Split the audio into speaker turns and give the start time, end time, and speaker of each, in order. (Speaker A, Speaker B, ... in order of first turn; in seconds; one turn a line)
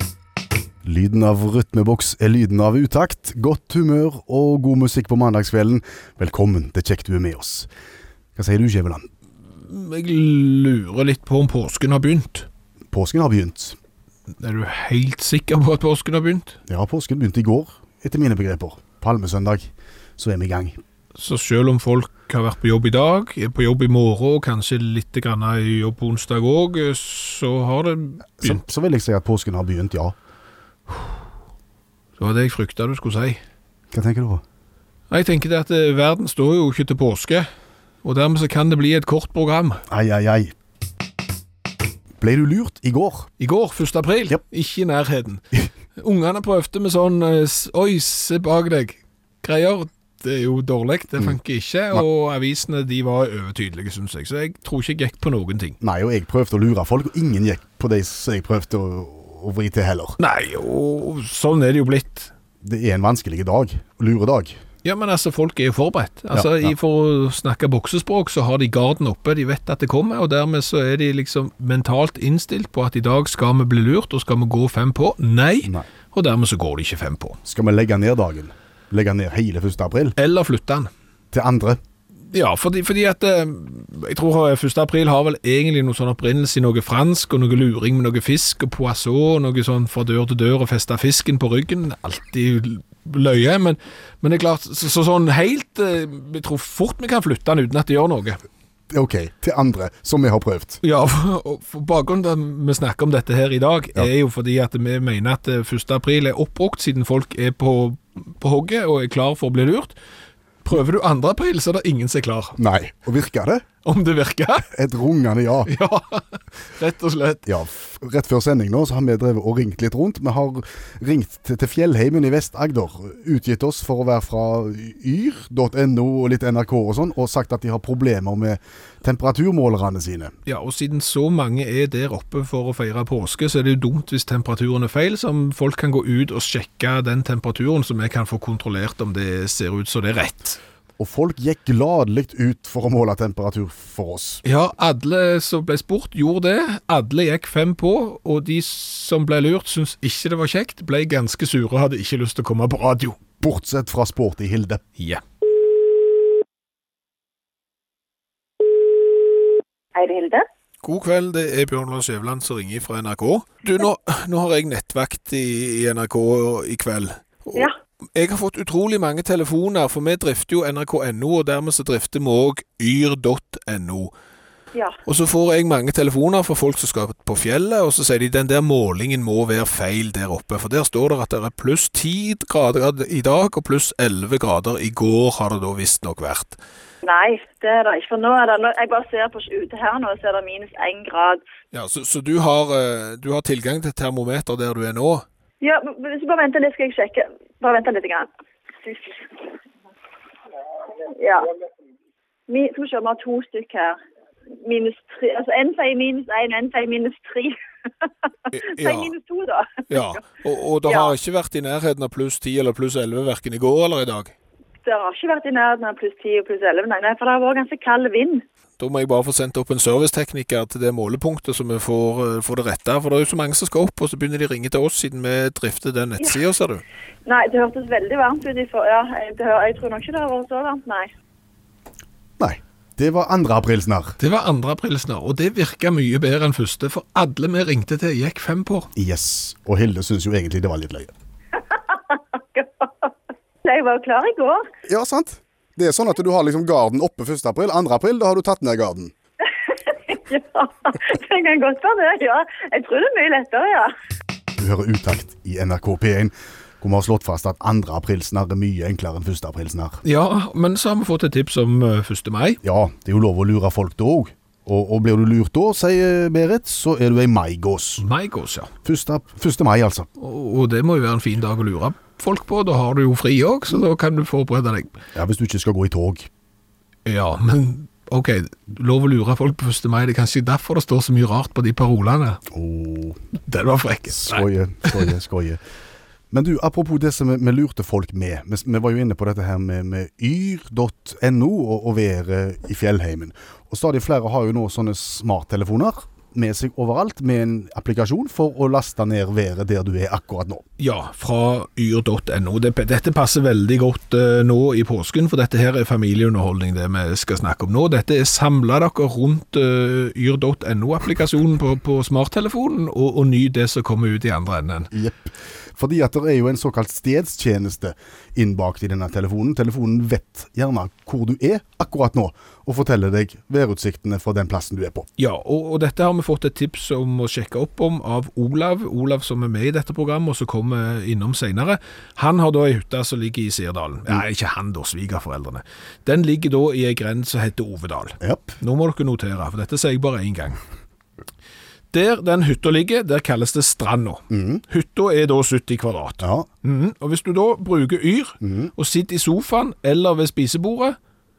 Speaker A: 0.8-7.7
Speaker A: 8.3-9.1
Speaker B: 9.6-12.5
Speaker A: 12.9-13.8
Speaker B: 14.4-16.6
Speaker A: 16.7-20.8
Speaker B: 21.1-28.6
Speaker A: 28.4-30.1
Speaker B: 32.2-33.4
Speaker A: 33.9-34.4
Speaker B: 35.1-37.5
Speaker B: 38.0-39.8
Speaker A: 39.9-40.5
Speaker A: 42.2-43.3
Speaker B: 43.4-55.8
Speaker A: 55.8-60.1
Speaker B: 60.2-62.3
Speaker A: 62.6-64.6
Speaker B: 64.8-77.4
Speaker A: 66.3-66.7
Speaker A: 77.4-80.1
Speaker B: 80.2-80.9
Speaker A: 81.3-81.8
Speaker B: 82.3-98.4
Speaker A: 98.9-100.8
Speaker B: 100.8-109.9
Speaker B: 110.6-112.6
Speaker A: 112.6-113.6
Speaker B: 113.8-114.7
Speaker A: 114.7-115.7
Speaker B: 115.7-117.5
Speaker A: 117.5-130.3
Speaker B: 130.4-140.6
Speaker A: 141.0-144.4
Speaker B: 144.4-153.2
Speaker A: 153.4-154.8
Speaker C: 159.9-160.4
Speaker B: 160.8-174.1
Speaker B: 175.1-186.6
Speaker C: 187.0-191.4
Speaker B: 191.7-195.2
Speaker C: 195.6-198.3
Speaker C: 198.8-199.5
Speaker C: 201.1-201.5
Speaker C: 202.5-204.0
Speaker C: 204.6-207.6
Speaker B: 208.5-209.1
Speaker C: 208.7-210.2
Speaker B: 209.9-214.3
Speaker C: 210.9-211.1
Speaker C: 214.8-218.4
Speaker B: 218.8-226.8
Speaker C: 227.2-231.1
Speaker A: 232.4-234.2
Speaker B: 234.2-238.9
Speaker A: 238.9-241.1
Speaker C: 242.4-243.1
Speaker C: 243.6-244.7
Speaker A: 244.8-249.1
Speaker C: 249.9-253.9
Speaker A: 254.6-260.0
Speaker B: 260.0-262.6
Speaker A: 262.6-268.0
Speaker B: 268.0-268.7
Speaker A: 268.8-270.1
Speaker B: 270.2-274.9
Speaker A: 275.1-276.3
Speaker B: 277.1-282.4
Speaker A: 282.5-283.2
Speaker B: 283.4-285.1
Speaker A: 284.1-285.6
Speaker A: 286.3-300.6
Speaker B: 300.8-314.9
Speaker A: 314.9-325.1
Speaker B: 325.2-340.6
Speaker A: 338.2-338.6
Speaker B: 341.9-351.0
Speaker A: 344.3-344.6
Speaker A: 346.2-346.5
Speaker A: 348.4-348.7